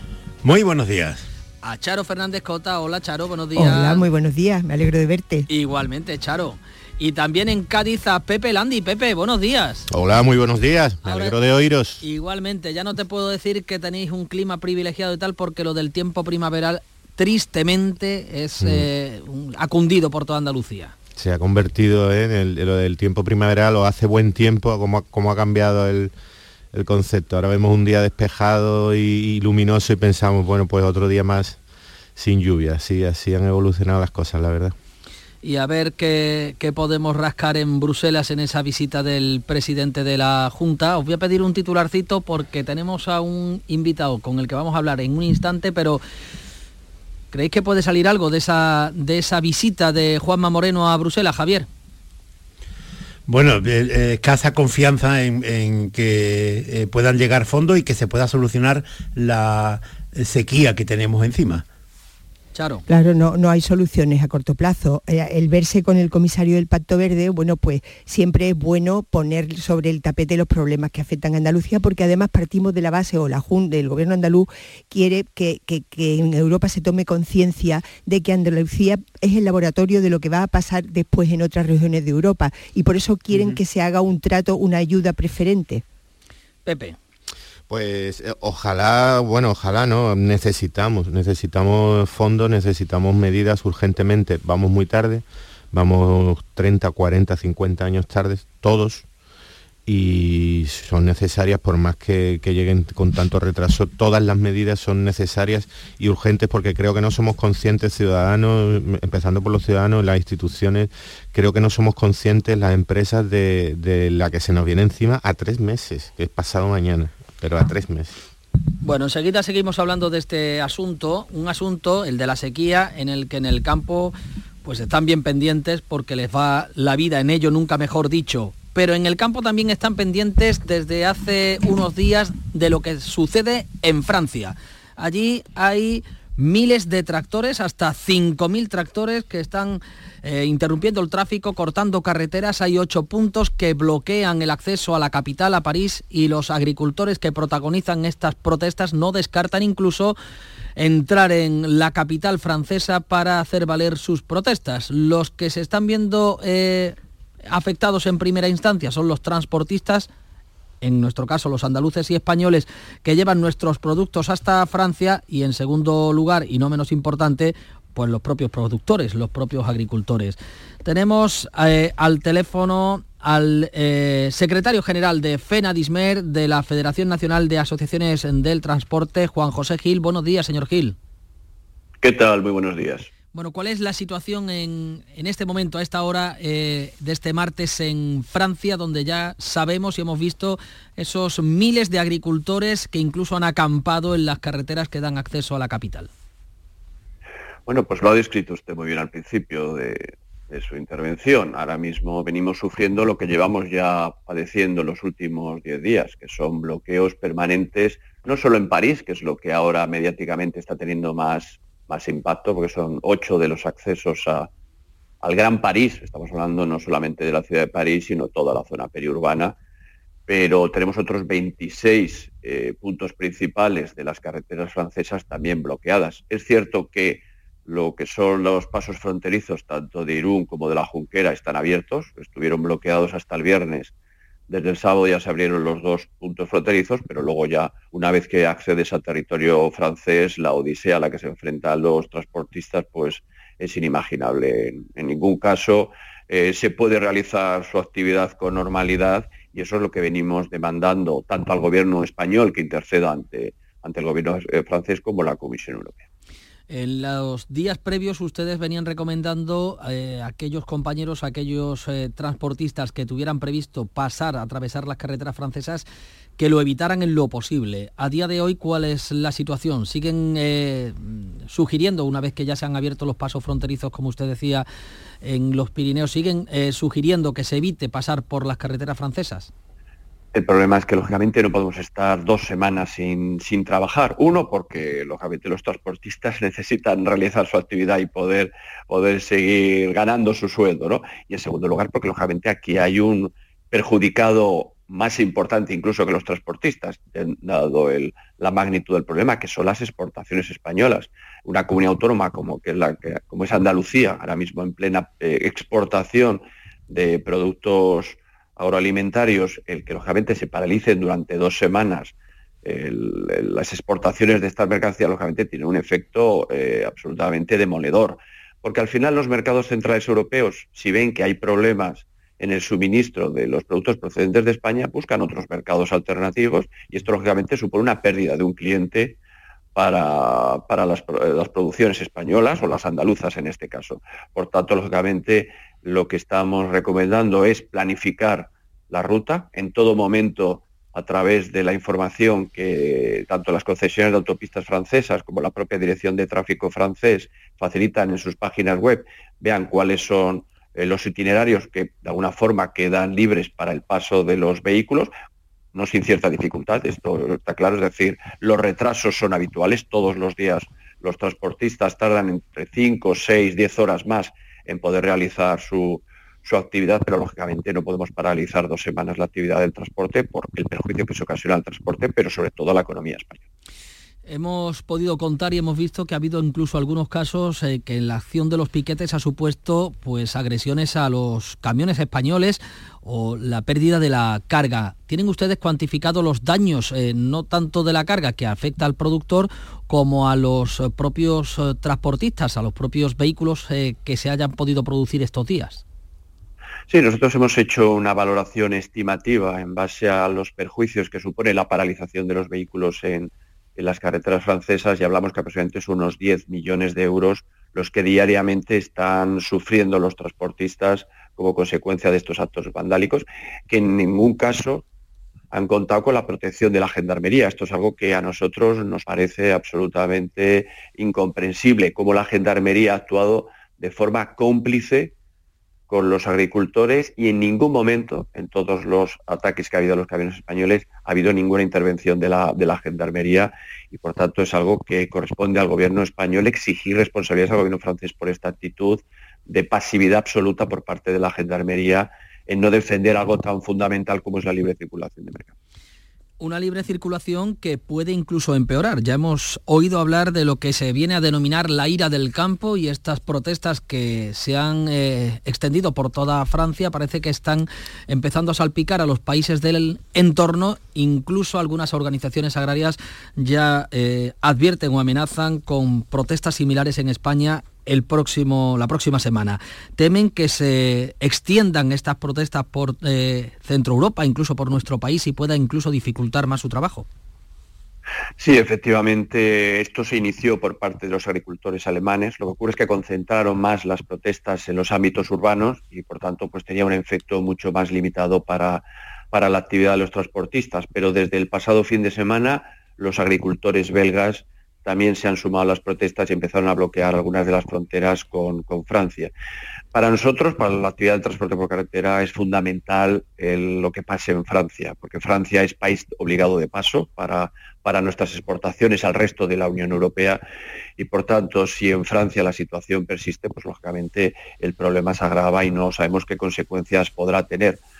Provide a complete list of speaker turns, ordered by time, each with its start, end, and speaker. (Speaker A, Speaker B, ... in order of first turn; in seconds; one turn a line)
Speaker A: 0.4-1.2
Speaker B: 1.6-4.1
Speaker C: 3.5-5.5
Speaker B: 5.5-9.8
Speaker D: 9.9-12.0
Speaker B: 11.1-11.4
Speaker B: 12.0-20.9
Speaker D: 21.2-26.1
Speaker D: 26.7-31.6
Speaker D: 32.2-34.7
Speaker B: 35.4-46.0
Speaker B: 47.3-51.7
Speaker A: 53.3-61.6
Speaker B: 62.5-62.9
Speaker C: 62.9-85.8
Speaker B: 83.3-83.6
Speaker B: 86.7-87.0
Speaker D: 87.7-99.0
Speaker D: 99.9-118.2
Speaker B: 118.8-124.1
Speaker B: 124.6-150.2
Speaker B: 150.8-156.9
Speaker B: 157.5-160.1
Speaker B: 160.8-181.0
Speaker E: 182.0-183.1
Speaker B: 183.3-196.1
Speaker E: 197.7-214.5
Speaker E: 215.2-219.5
Speaker E: 220.3-233.9
Speaker E: 234.5-256.0
Speaker B: 256.7-265.9
Speaker B: 266.4-274.6
Speaker B: 275.2-279.5
Speaker E: 280.4-312.1
Speaker E: 312.6-329.2
Speaker E: 329.8-355.1
Speaker E: 355.8-373.4
Speaker B: 374.3-395.8
Speaker E: 396.9-414.8
Speaker E: 415.5-425.1
Speaker E: 425.9-445.5
Speaker B: 446.4-477.1
Speaker E: 478.4-499.3
Speaker E: 499.9-510.4
Speaker E: 511.0-517.8